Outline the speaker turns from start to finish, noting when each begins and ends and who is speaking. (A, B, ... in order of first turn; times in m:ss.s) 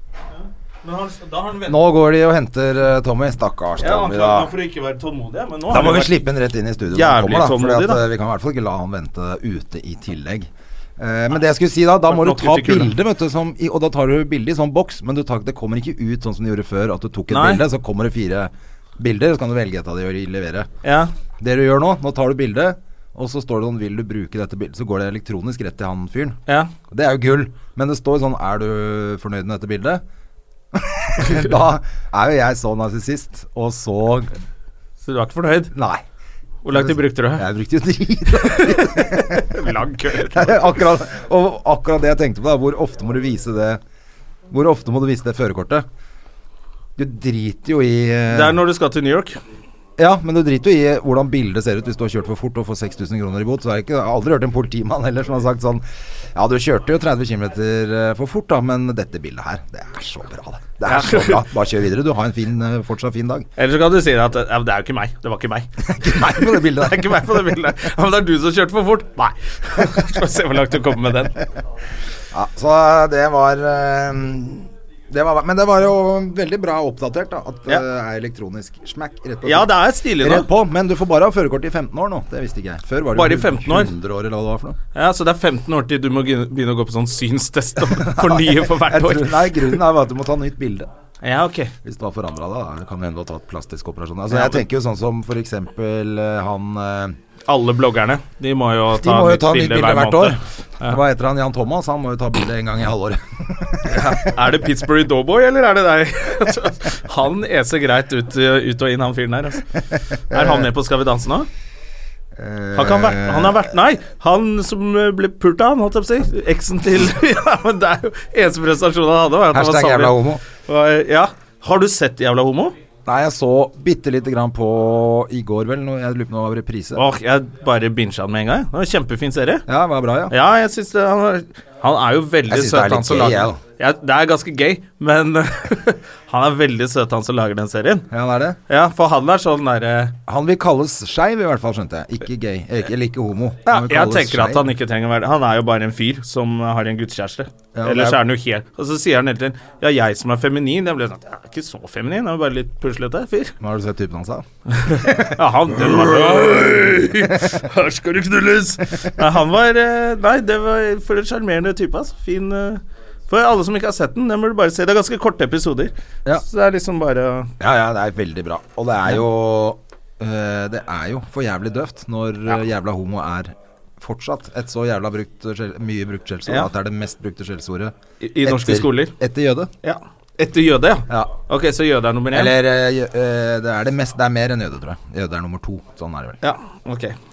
0:00.3-0:01.8 A
0:01.6-0:04.5 B
0:03.8-0:06.2 A
0:05.7-0:20.7 B
0:06.9-0:08.0 A
0:12.1-0:12.9 A
0:17.3-0:17.6 A
0:20.8-0:21.1 A
0:21.4-0:26.4 B
0:26.5-0:26.7 A
0:26.9-0:30.0 B
0:30.7-0:34.3 B
0:35.0-0:35.7 A
0:35.7-0:36.0 B
0:36.6-0:37.5 A
0:36.7-0:39.6 B
0:38.4-0:40.8 A
0:40.3-0:43.8 B
0:44.5-0:45.8 B
0:47.0-0:48.6 B
0:48.3-0:49.4 A
0:50.0-1:03.4 B
1:00.8-1:01.4 A
1:03.6-1:11.4 A
1:05.8-1:07.3 B
1:12.3-1:24.8 B
1:19.4-1:20.5 A
1:23.1-1:23.9 A
1:24.9-1:29.8 A
1:28.0-1:30.9 B
1:31.2-1:31.7 A
1:31.8-1:37.2 B
1:34.3-1:34.6 A
1:37.5-1:41.0 A
1:39.0-1:44.4 B
1:43.9-1:51.5 A
1:50.3-1:50.7 B
1:52.4-1:53.7 B
1:52.7-2:02.8 A
1:59.5-2:00.4 B
2:03.0-2:07.1 B
2:06.9-2:09.6 A
2:09.7-2:10.3 B
2:10.3-2:18.1 A
2:12.5-2:13.6 B
2:18.1-2:18.6 B
2:18.7-2:20.1 A
2:20.3-2:24.7 B
2:23.7-2:33.5 A
2:27.7-2:28.2 B
2:33.6-2:37.5 B
2:34.7-2:47.5 A
2:47.6-2:59.7 B
2:58.2-2:59.1 A
2:59.8-3:02.5 A
3:01.1-3:01.3 B
3:02.3-3:06.4 B
3:06.4-3:07.2 A